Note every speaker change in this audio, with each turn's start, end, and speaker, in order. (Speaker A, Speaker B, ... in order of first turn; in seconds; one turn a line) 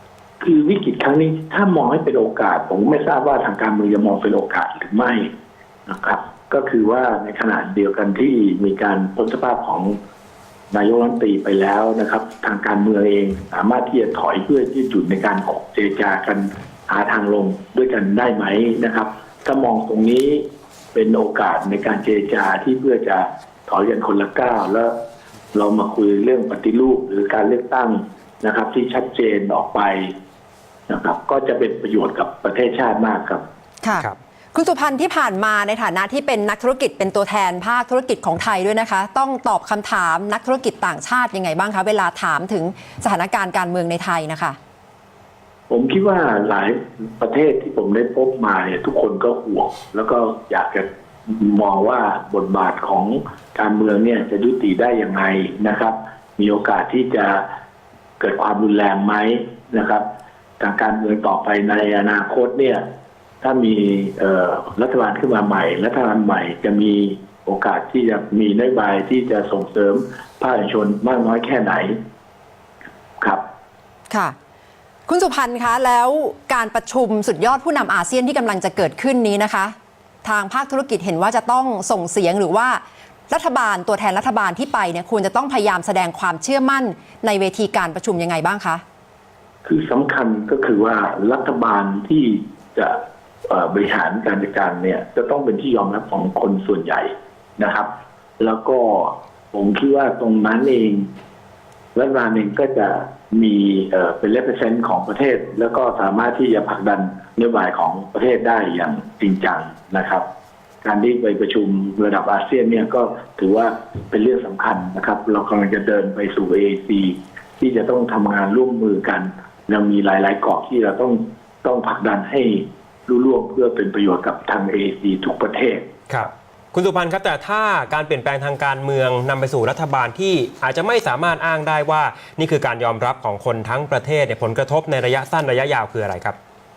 Speaker A: 0.4-5.3
Speaker A: 5.9-10.0
Speaker A: 10.7-24.9
Speaker A: 25.5-30.1
Speaker A: 30.9-33.4
Speaker B: 33.8-44.6
Speaker A: 45.7-57.4
Speaker A: 58.2-60.0
Speaker A: 60.6-62.8
Speaker A: 63.4-72.0
Speaker B: 75.1-88.8
Speaker A: 89.6-101.1
Speaker A: 101.9-110.2
Speaker A: 110.8-125.9
Speaker C: 126.1-136.3